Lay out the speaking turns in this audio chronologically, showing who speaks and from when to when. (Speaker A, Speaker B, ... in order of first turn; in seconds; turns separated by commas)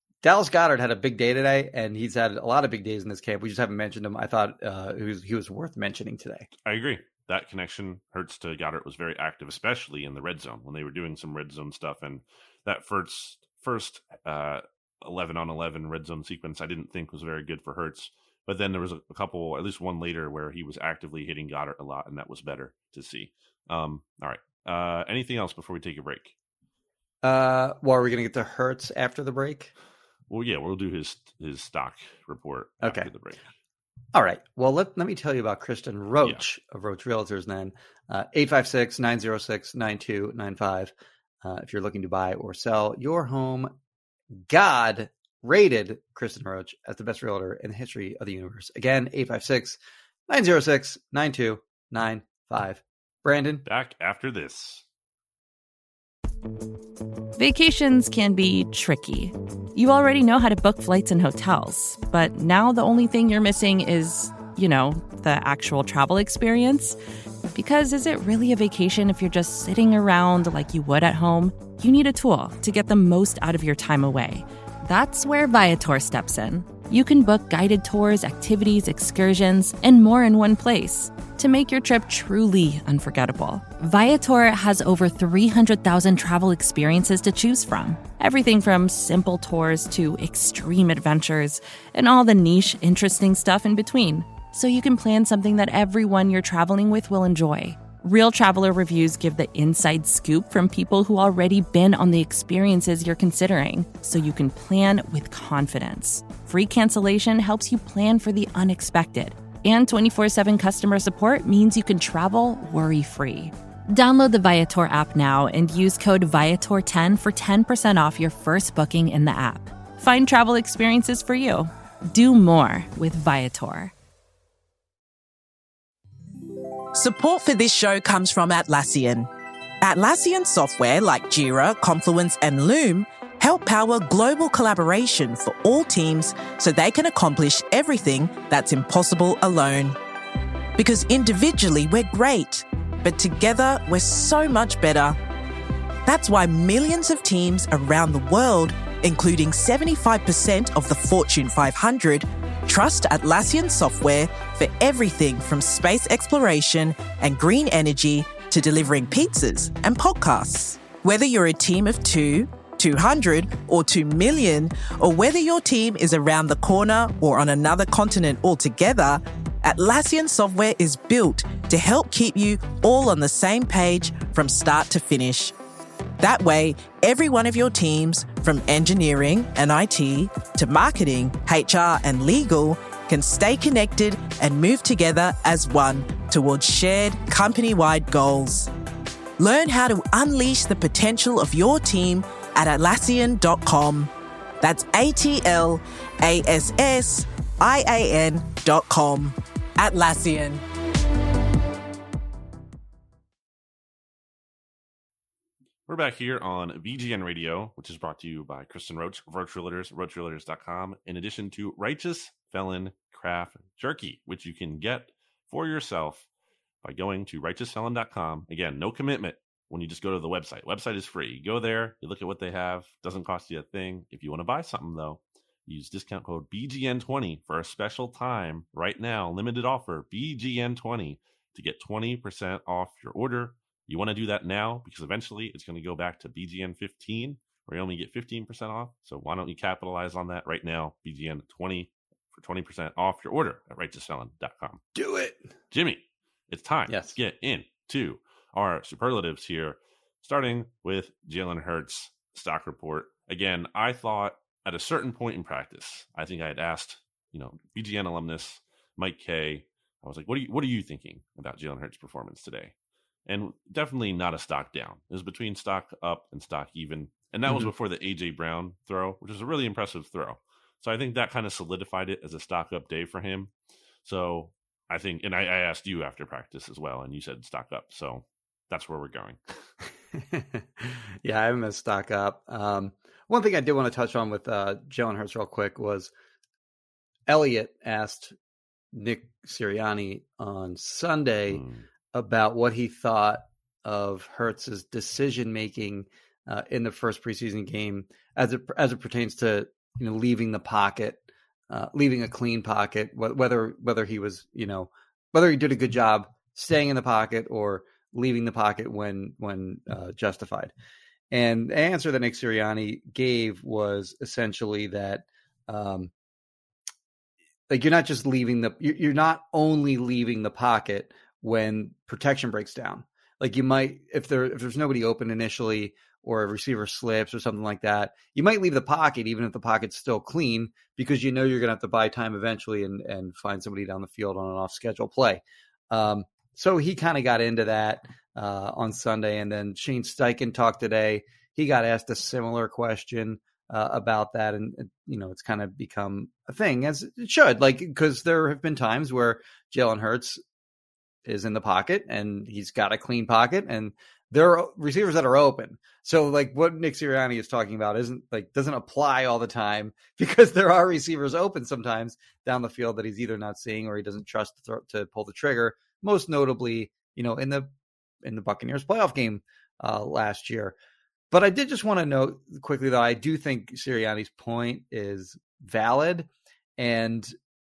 Speaker A: 0.2-6.5, Speaker B: 6.6-26.3, Speaker A: 27.2-29.7, Speaker B: 30.3-33.4, Speaker A: 32.8-33.1, Speaker A: 34.1-43.7, Speaker A: 44.5-53.6, Speaker B: 53.6-54.8, Speaker C: 57.4-67.0, Speaker C: 67.5-123.9, Speaker D: 126.9-129.3, Speaker D: 129.8-139.9, Speaker D: 140.8-145.2, Speaker D: 146.1-175.5, Speaker D: 176.2-188.7, Speaker D: 189.4-194.1, Speaker D: 194.6-200.6, Speaker B: 205.9-216.3, Speaker B: 216.8-244.8, Speaker A: 244.9-245.5, Speaker B: 245.7-262.7, Speaker A: 246.9-247.2, Speaker B: 263.2-273.5, Speaker B: 274.0-279.4, Speaker A: 280.2-286.1, Speaker A: 287.3-288.3, Speaker A: 288.9-310.7, Speaker B: 291.5-291.8, Speaker A: 311.3-316.1, Speaker A: 317.7-350.4, Speaker A: 351.2-367.7, Speaker A: 368.2-370.8, Speaker A: 371.3-377.3